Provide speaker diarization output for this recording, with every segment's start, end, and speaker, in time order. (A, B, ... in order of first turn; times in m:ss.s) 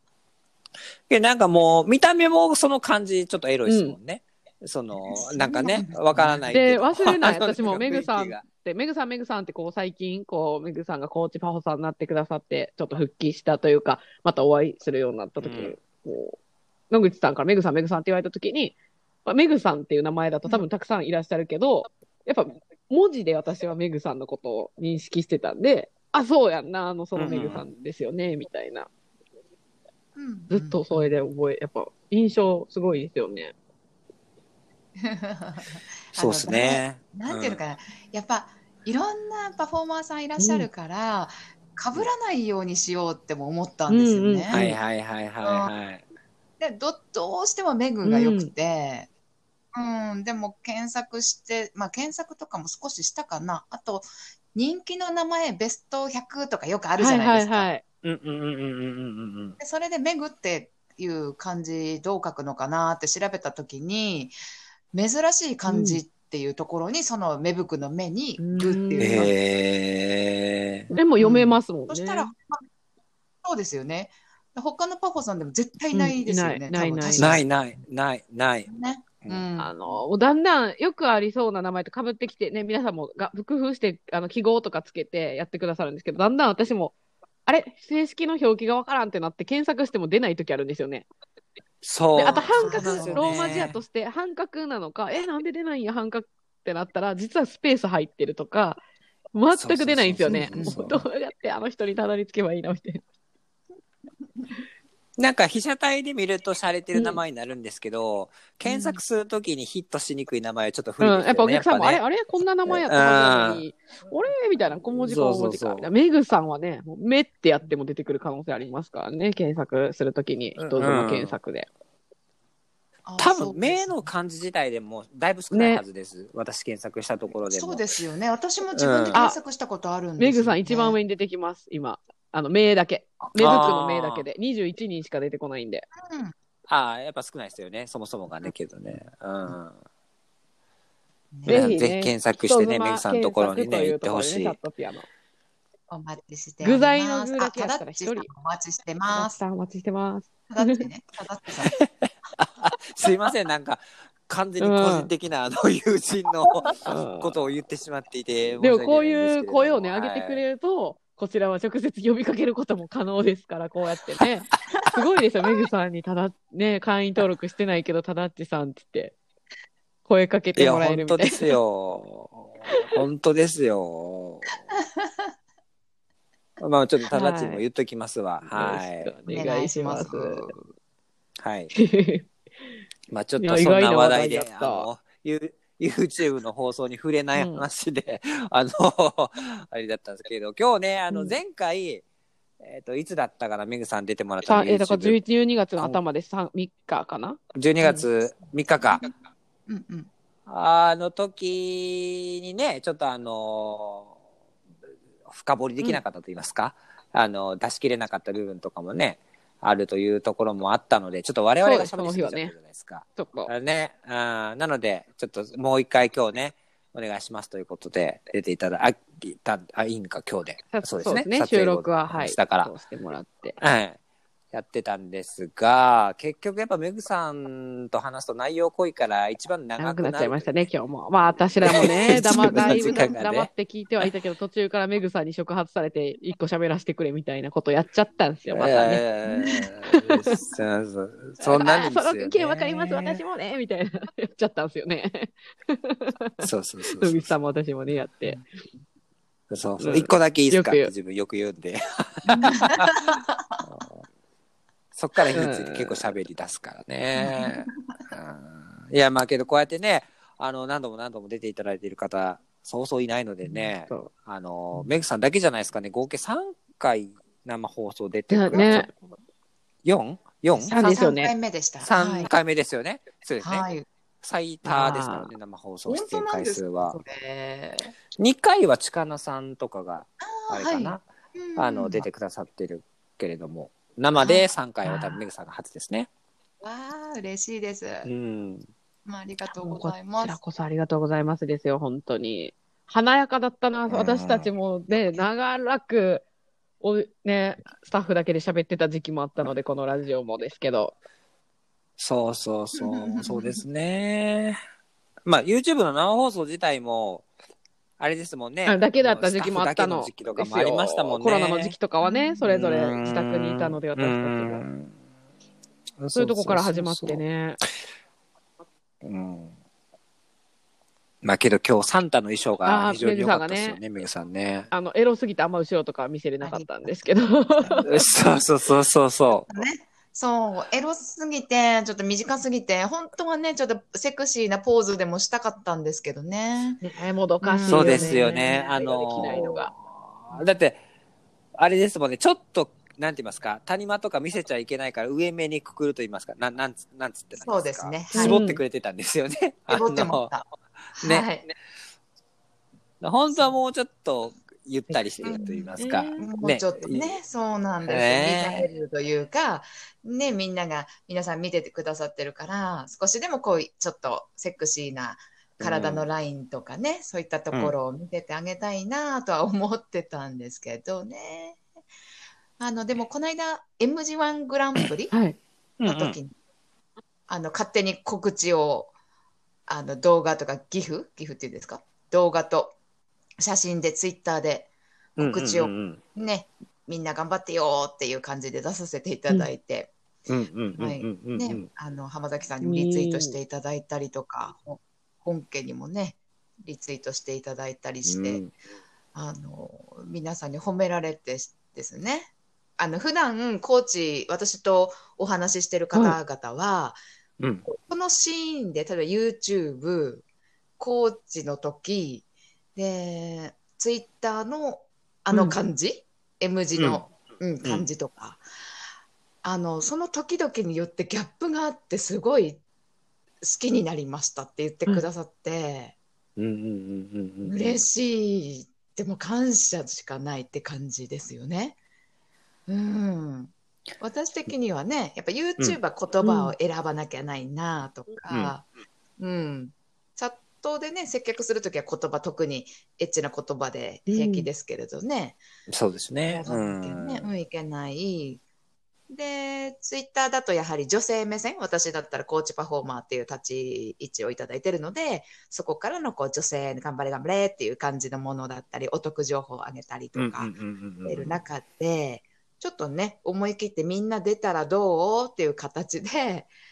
0:01.1-0:08.4 A
0:03.7-0:04.0 B
0:05.1-0:06.5 C
0:06.5-0:16.4 B
0:15.4-0:15.8 A
0:16.9-0:28.9 B
0:27.2-0:27.6 A
0:30.2-0:31.0 C
0:30.5-0:33.5 B
0:35.0-0:44.6 C
0:36.2-0:37.6 A
0:40.4-0:40.7 B
0:43.9-0:44.8 B
0:44.5-0:46.0 A
0:45.4-0:45.7 C
0:46.6-0:49.1 C
0:48.0-0:48.5 B
0:49.7-0:57.7 C
0:57.0-0:57.8 B
0:58.0-0:59.6 A
0:59.6-1:04.4 C
1:04.9-1:09.4 C
1:05.7-1:06.0 B
1:08.4-1:09.3 B
1:09.0-1:10.9 A
1:10.9-1:12.3 B
1:11.2-1:12.6 C
1:13.4-1:17.4 C
1:15.9-1:17.4 B
1:17.2-1:18.7 A
1:18.7-1:20.0 C
1:19.6-1:27.0 B
1:27.5-1:31.1 B
1:31.8-1:33.8 A
1:32.2-1:38.8 B
1:32.2-1:33.7 C
1:39.3-1:43.0 B
1:39.5-1:41.0 A
1:40.3-1:40.8 C
1:45.2-1:52.0 A
1:46.9-1:47.2 B
1:48.7-1:49.0 C
1:51.0-2:01.7 B
1:52.7-1:53.6 A
1:55.0-1:55.9 A
2:00.6-2:01.4 A
2:03.1-2:04.1 C
2:03.2-2:07.8 A
2:05.5-2:05.8 B
2:07.4-2:11.0 C
2:08.8-2:09.2 A
2:10.2-2:15.9 B
2:13.4-2:14.2 A
2:16.0-2:16.3 C
2:16.7-2:19.8 A
2:21.3-2:21.7 C
2:21.5-2:24.6 A
2:21.5-2:25.1 B
2:25.9-2:29.4 C
2:26.6-2:28.3 B
2:29.1-2:30.8 B
2:30.5-2:31.8 C
2:31.7-2:40.4 A
2:34.6-2:35.1 B
2:36.9-2:37.3 B
2:38.6-2:49.2 B
2:50.1-2:51.6 B
2:50.6-2:54.6 A
2:54.7-2:55.3 C
2:56.6-2:59.1 A
2:57.1-2:57.6 B
2:58.4-3:00.6 B
2:59.3-3:00.5 C
3:01.4-3:01.7 A
3:01.7-3:02.3 B
3:03.1-3:12.0 A
3:03.4-3:04.9 B
3:07.4-3:07.6 B
3:11.1-3:11.4 B
3:12.6-3:15.2 A
3:14.5-3:18.0 B
3:17.5-3:19.0 A
3:19.7-3:20.1 C
3:20.5-3:24.1 A
3:25.3-3:42.7 A
3:31.6-3:32.5 B
3:33.2-3:33.5 B
3:40.7-3:43.6 B
3:43.6-3:44.0 A
3:44.5-3:50.7 A
3:49.8-4:00.4 B
3:51.6-3:53.5 A
3:52.1-3:53.1 C
3:58.5-4:03.2 A
4:01.4-4:08.4 B
4:06.4-4:07.3 A
4:09.5-4:14.0 A
4:09.8-4:10.9 B
4:12.3-4:13.6 C
4:14.9-4:28.9 A
4:15.4-4:16.1 B
4:17.2-4:18.1 C
4:23.4-4:24.1 B
4:28.3-4:28.9 B
4:28.5-4:28.8 C
4:29.8-4:30.8 A
4:30.5-4:32.3 C
4:30.7-4:31.3 B
4:31.8-4:33.7 A
4:33.4-4:33.9 C
4:34.2-4:37.0 A
4:34.7-4:35.3 B
4:35.9-4:37.9 C
4:38.2-4:41.0 A
4:40.2-4:42.1 C
4:41.6-4:46.1 A
4:44.2-4:44.5 C
4:44.8-4:45.2 B
4:46.6-4:48.1 C
4:48.0-4:48.7 A
4:49.0-4:50.4 C
4:49.5-4:56.2 B
4:53.9-4:54.5 A
4:54.9-4:55.2 C
4:56.8-5:01.0 B
5:02.0-5:04.6 A
5:02.8-5:03.6 C
5:05.2-5:07.3 A
5:08.0-5:11.8 A
5:08.7-5:14.7 B
5:12.0-5:12.5 C
5:12.5-5:14.9 A
5:16.0-5:17.2 A
5:16.1-5:17.6 B
5:19.0-5:19.5 A
5:21.2-5:24.7 A
5:22.6-5:23.8 B
5:24.7-5:27.9 B
5:26.4-5:27.0 C
5:27.6-5:27.9 C
5:27.8-5:29.6 A
5:29.5-5:36.8 C
5:36.8-5:39.7 B
5:37.4-5:38.6 C
5:37.7-5:40.8 A
5:39.2-5:39.5 C
5:41.6-5:50.3 A
5:47.4-5:48.4 C
5:48.1-5:48.6 B
5:49.7-5:50.4 C
5:51.0-5:51.5 C
5:51.0-5:51.3 A
5:53.0-5:57.1 A
5:55.2-6:11.6 C
5:55.8-5:56.3 B
5:57.9-5:58.7 A
6:05.6-6:06.1 A
6:12.6-6:15.1 C
6:15.1-6:15.4 B
6:15.8-6:16.2 A
6:15.8-6:16.4 C
6:17.3-6:18.9 C
6:19.7-6:22.8 C
6:23.4-6:29.9 C
6:25.2-6:26.0 A
6:30.3-6:31.7 A
6:30.8-6:38.5 C
6:32.6-6:33.4 B
6:38.1-6:38.5 A
6:39.1-6:47.0 C
6:47.4-6:47.6 A
6:47.7-6:50.2 C
6:50.8-6:58.4 C
6:55.3-6:55.6 B
6:56.8-6:57.0 A
6:59.4-7:02.6 C
7:03.4-7:06.0 C
7:06.4-7:07.8 A
7:07.4-7:11.8 C
7:12.7-7:18.7 C
7:16.2-7:16.6 B
7:18.3-7:18.5 A
7:19.2-7:25.4 C
7:24.1-7:24.5 B
7:25.7-7:27.3 A
7:26.3-7:28.4 C
7:29.1-7:40.5 C
7:40.2-7:41.4 A
7:41.0-7:46.5 C